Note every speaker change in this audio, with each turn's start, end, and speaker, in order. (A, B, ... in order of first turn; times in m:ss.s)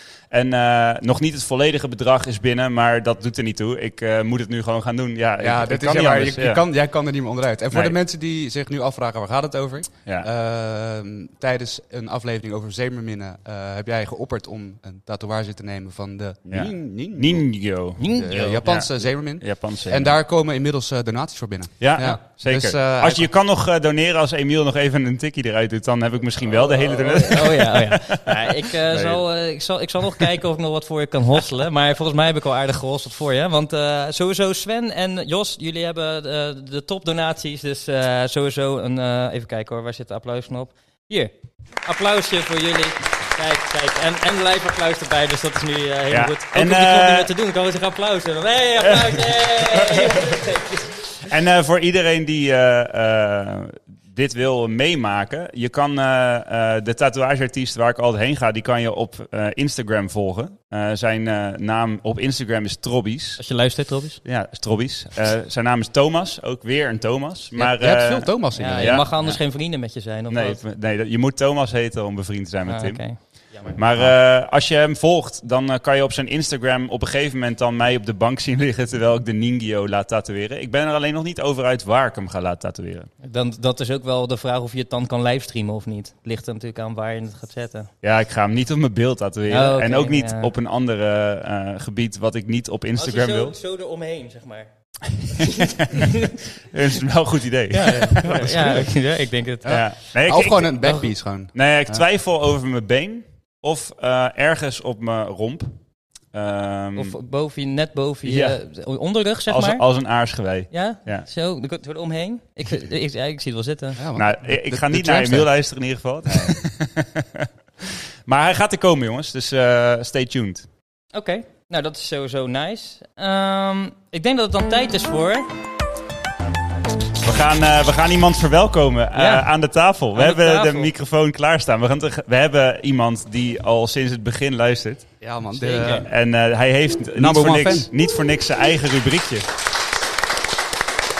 0:00.3-0:06.6 A
0:05.4-0:17.4 B
0:16.5-0:18.0 A
0:18.0-0:18.6 C
0:18.0-0:23.3 B
0:18.6-0:20.1 A
0:21.8-0:29.2 A
0:27.0-0:51.1 C
0:46.1-0:47.3 A
0:48.8-0:50.4 A
0:51.2-1:03.4 A
1:03.4-1:04.2 C
1:04.2-1:23.1 A
1:07.5-1:09.1 B
1:08.5-1:10.6 C
1:12.7-1:13.7 C
1:23.2-1:27.9 C
1:28.0-1:33.5 A
1:29.5-1:30.5 C
1:33.0-1:34.7 C
1:35.2-1:36.1 C
1:35.4-1:38.9 A
1:37.7-1:39.9 C
1:38.0-1:38.5 B
1:39.6-1:42.0 B
1:39.6-1:41.0 A
1:41.5-1:45.8 A
1:46.3-1:47.2 A
1:46.9-1:49.8 C
1:48.2-1:48.6 A
1:49.5-1:51.3 A
1:50.7-1:54.0 C
1:54.0-1:55.5 B
1:54.2-2:00.7 A
1:56.2-1:56.6 B
2:01.1-2:05.5 C
2:07.2-2:15.1 A
2:09.2-2:09.5 C
2:10.1-2:10.9 C
2:15.2-2:16.1 B
2:15.6-2:16.0 C
2:15.7-2:19.5 A
2:17.2-2:17.9 B